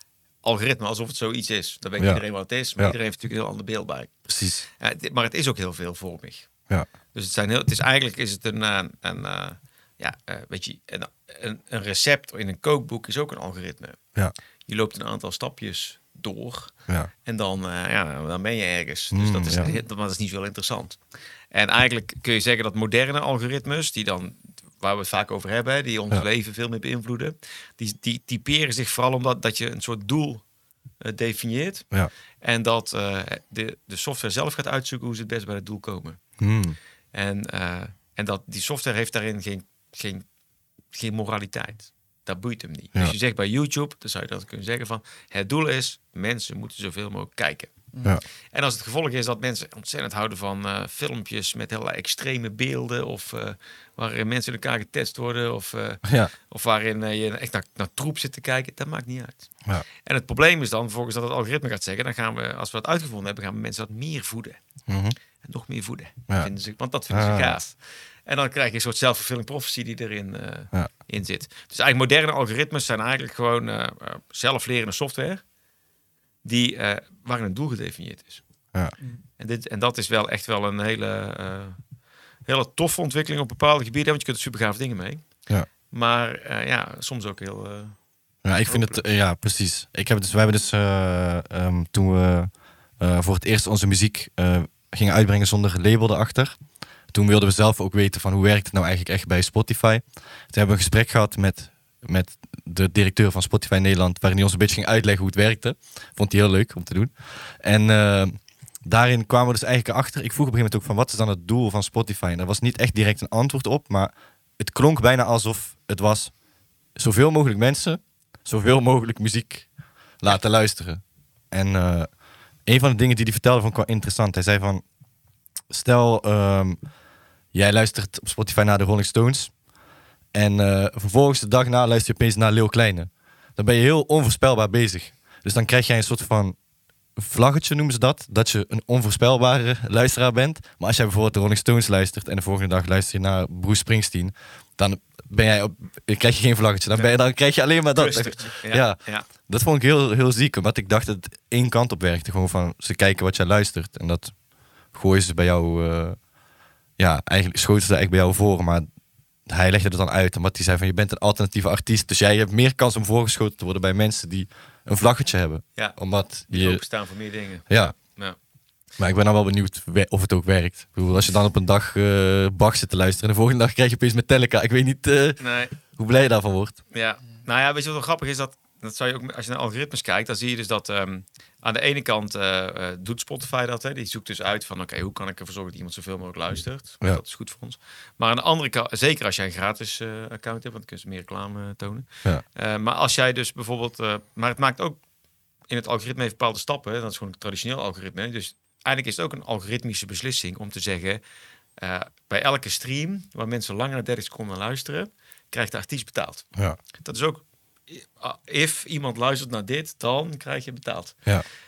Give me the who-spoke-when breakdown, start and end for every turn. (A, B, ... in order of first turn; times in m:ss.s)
0:00.4-0:04.1 A
0:04.3-0:04.6 B
0:04.8-0:06.5 A
0:07.1-0:14.0 A
0:14.7-0:21.0 A
0:19.1-0:19.7 B
0:21.5-0:30.4 A
0:31.0-0:31.9 A
0:32.4-0:36.2 A
0:36.4-0:36.8 B
0:37.1-0:40.2 A
0:40.9-0:47.7 A
0:48.5-0:59.5 A
0:56.0-0:56.3 B
1:00.0-1:04.6 A
1:04.9-1:05.2 B
1:05.4-1:15.4 A
1:07.1-1:07.6 B
1:16.4-1:18.4 A
1:19.4-1:21.8 A
1:22.5-1:25.2 A
1:25.9-1:28.0 A
1:28.4-1:36.6 B
1:28.7-1:29.0 A
1:37.1-1:56.3 B
1:57.0-2:04.8 B
2:05.7-2:06.8 B
2:07.5-2:09.5 B
2:10.3-2:16.6 B
2:17.2-2:34.4 B
2:28.0-2:29.3 A
2:34.9-2:36.2 B
2:37.0-2:38.9 B
2:39.5-2:46.8 B
2:45.8-2:48.4 A
2:47.7-2:48.0 B
2:49.0-2:56.8 B
2:55.4-2:55.8 A
2:56.9-3:15.0 A
3:15.7-3:21.2 A
3:21.8-3:31.2 A